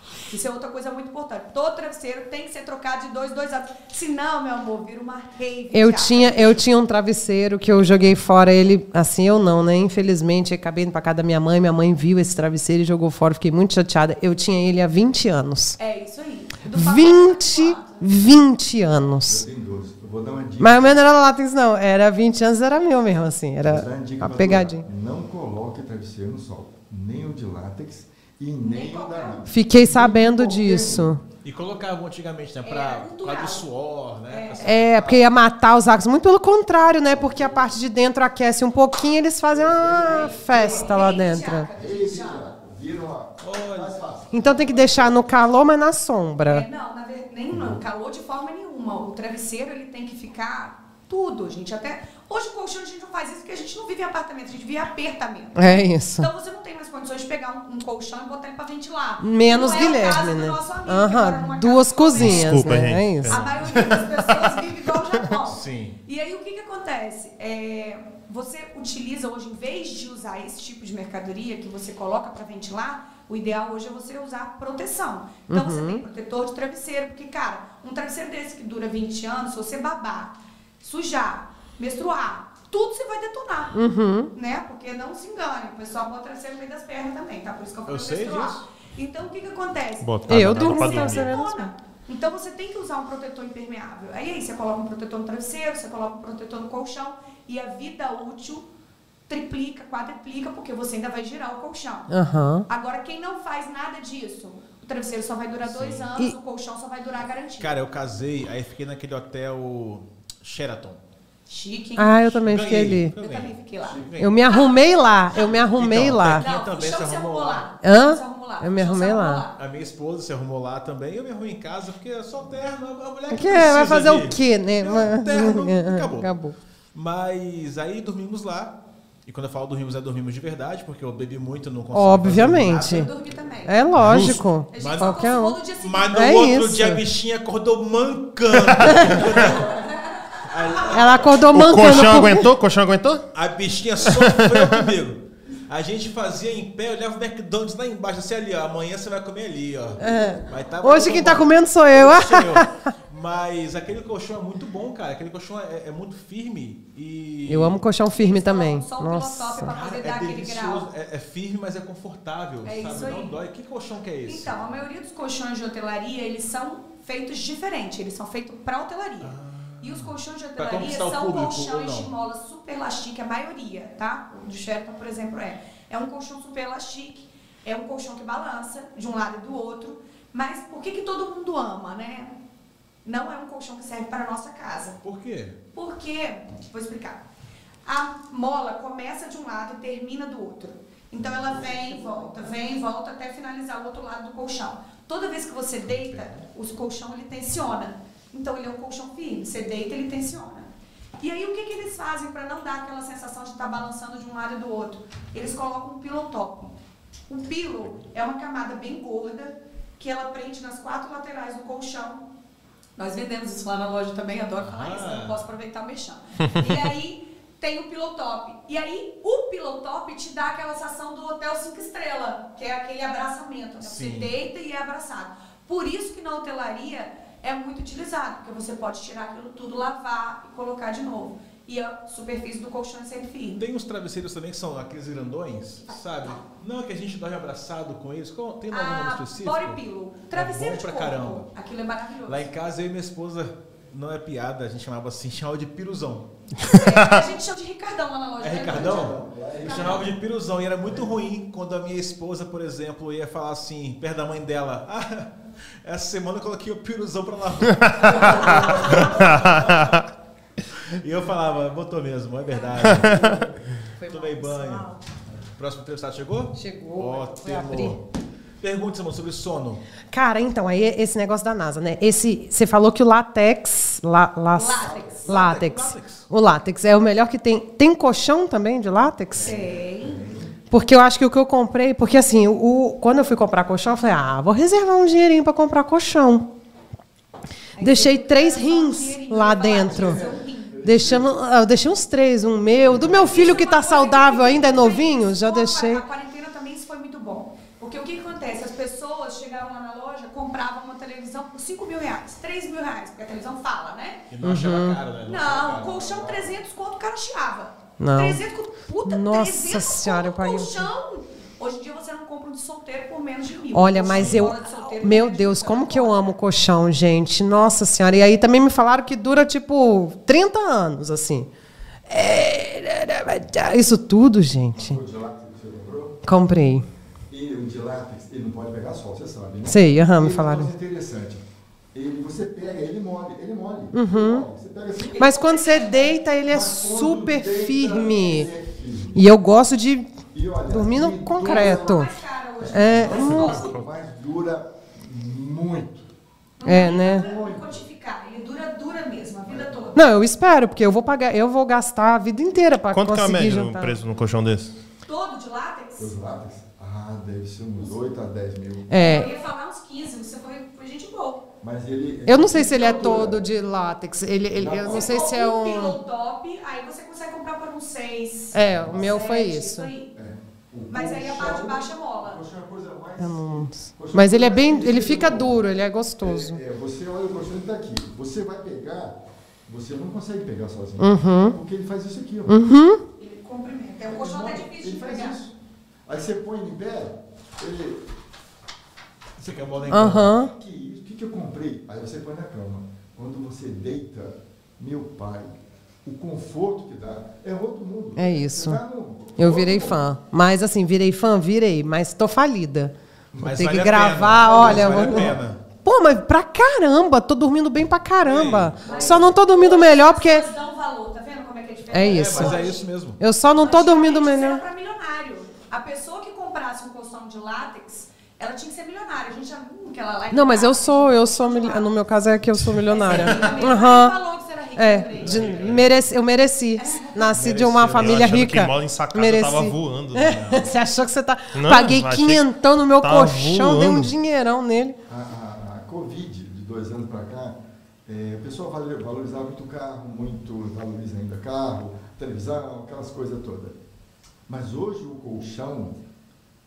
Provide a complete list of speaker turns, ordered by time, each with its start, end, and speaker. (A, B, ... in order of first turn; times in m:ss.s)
0:00.2-0:06.6 A
0:05.7-0:15.8 B
0:15.8-0:18.1 A
0:16.6-0:19.4 B
0:19.2-0:21.0 C
0:20.6-0:24.8 B
0:23.6-0:31.2 C
0:28.6-0:29.5 A
0:29.5-0:31.2 B
0:31.4-0:35.1 D
0:32.6-0:33.6 A
0:34.3-0:34.8 A
0:34.6-0:41.7 B
0:37.0-0:37.7 C
0:39.4-0:41.1 C
0:40.0-0:42.5 A
0:41.7-0:45.3 C
0:43.4-0:44.0 D
0:44.3-0:46.6 B
0:46.4-1:23.8 A
0:47.5-0:47.8 C
0:55.5-0:56.3 B
0:59.2-1:03.4 B
1:02.2-1:04.5 E
1:03.4-1:04.0 D
1:05.4-1:06.0 D
1:15.5-1:16.0 B
1:23.7-1:24.3 B
1:24.3-1:38.6 A
1:27.8-1:28.6 D
1:30.0-1:31.4 E
1:30.3-1:31.7 B
1:39.3-1:42.1 A
1:42.1-1:42.6 B
1:42.7-1:47.8 A
1:45.6-1:46.1 D
1:47.6-1:51.0 D
1:51.5-1:52.4 A
1:52.0-1:53.1 B
1:52.4-1:54.4 D
1:53.2-1:55.5 A
1:54.2-1:56.4 B
1:55.4-1:57.6 D
1:56.4-1:59.6 A
1:57.8-1:59.4 B
1:59.6-2:06.3 D
2:03.3-2:06.6 B
2:06.9-2:08.7 D
2:09.2-2:13.5 D
2:11.9-2:13.1 B
2:12.8-2:16.3 A
2:13.6-2:15.6 B
2:13.9-2:14.4 E
2:14.0-2:19.8 D
2:16.1-2:17.0 B
2:18.8-2:19.2 B
2:19.5-2:21.2 A
2:20.4-2:21.9 D
2:20.9-2:22.5 B
2:21.5-2:23.2 E
2:23.3-2:37.8 D
2:24.0-2:24.9 E
2:30.0-2:30.4 C
2:30.0-2:32.8 B
2:37.5-2:39.7 B
2:38.1-2:40.9 A
2:39.6-2:44.6 D
2:42.6-2:43.3 A
2:44.2-3:02.4 A
2:49.2-2:52.1 D
3:03.0-3:05.0 A
3:05.0-3:05.6 D
3:05.7-3:07.2 A
3:07.8-3:20.7 A
3:11.2-3:11.8 D
3:15.9-3:16.4 D
3:21.2-3:26.7 A
3:27.3-3:32.2 A
3:33.0-3:53.6 A
3:34.6-3:35.4 D
3:43.8-3:44.3 D
3:53.6-3:59.8 D
3:55.8-3:56.4 A
3:58.7-4:02.5 A
4:00.3-4:01.5 D
4:02.2-4:06.3 D
4:06.6-4:07.2 E
4:06.6-4:10.1 A
4:08.4-4:15.3 D
4:08.6-4:10.1 C
4:15.8-4:20.0 D
4:17.8-4:18.4 E
4:18.2-4:19.1 A
4:19.0-4:20.0 E
4:20.7-4:23.5 D
4:22.9-4:23.3 E
4:24.0-4:25.0 B
4:24.0-4:24.9 D
4:25.5-4:28.0 D
4:26.5-4:28.0 B
4:28.6-4:29.8 D
4:30.1-4:39.6 B
4:34.5-4:35.3 A
4:35.2-4:36.2 D
4:39.4-4:40.2 A
4:39.4-4:40.5 C
4:40.7-4:46.5 B
4:47.8-4:50.8 A
4:47.8-4:50.2 B
4:49.8-4:51.4 C
4:50.8-4:56.0 B
4:52.8-4:53.4 C
4:53.0-5:04.3 A
5:04.3-5:06.3 D
5:04.4-5:05.0 B
5:05.2-5:16.4 A
5:05.9-5:06.5 C
5:08.0-5:08.4 B
5:09.0-5:10.9 B
5:13.7-5:21.5 B
5:14.1-5:14.5 D
5:22.1-5:25.0 B
5:24.8-5:26.2 C
5:26.2-5:26.9 B
5:27.3-5:35.4 C
5:29.6-5:30.7 B
5:33.9-5:34.4 B
5:35.0-5:36.1 A
5:35.2-5:38.5 B
5:36.4-5:39.2 C
5:39.1-5:40.1 B
5:40.3-5:42.1 C
5:40.7-5:42.1 B
5:41.4-5:43.8 A
5:42.6-5:46.1 C
5:42.6-5:43.7 B
5:46.6-5:50.0 A
5:46.6-5:47.2 B
5:46.7-5:47.8 C
5:49.5-5:50.0 C
5:49.9-5:54.0 B
5:52.9-5:54.7 E
5:55.0-5:56.1 A
5:56.0-5:59.1 C
5:58.9-5:59.3 B
5:58.9-6:01.5 A
6:01.6-6:03.4 C
6:02.3-6:06.0 B
6:04.5-6:05.3 C
6:04.8-6:10.1 A
6:08.5-6:09.9 B
6:08.6-6:09.3 C
6:10.1-6:15.6 C
6:10.9-6:12.4 A
6:13.2-6:16.6 B
6:16.2-6:22.6 C
6:21.0-6:21.6 B
6:22.5-6:23.0 B
6:23.2-6:25.4 A
6:24.0-6:25.6 C
6:26.0-6:28.0 C
6:29.4-6:40.0 C
6:29.4-6:30.3 D
6:29.9-6:30.5 B
6:38.2-6:38.8 B
6:39.4-6:50.5 B
6:43.4-6:45.6 D
6:44.4-6:45.4 C
6:48.2-6:48.9 D
6:48.8-6:49.3 C
6:48.8-6:52.8 A
6:51.9-6:52.6 B
6:52.0-6:53.2 D
6:53.2-6:54.6 B
6:53.5-7:02.1 A
7:00.3-7:04.2 B
7:02.9-7:05.8 A
7:04.7-7:15.0 B
7:05.1-7:05.9 D
7:06.8-7:07.4 A
7:07.3-7:08.4 D
7:07.9-7:10.4 E
7:10.3-7:10.7 D
7:11.5-7:14.1 E
7:15.1-7:23.8 C
7:24.5-7:26.0 C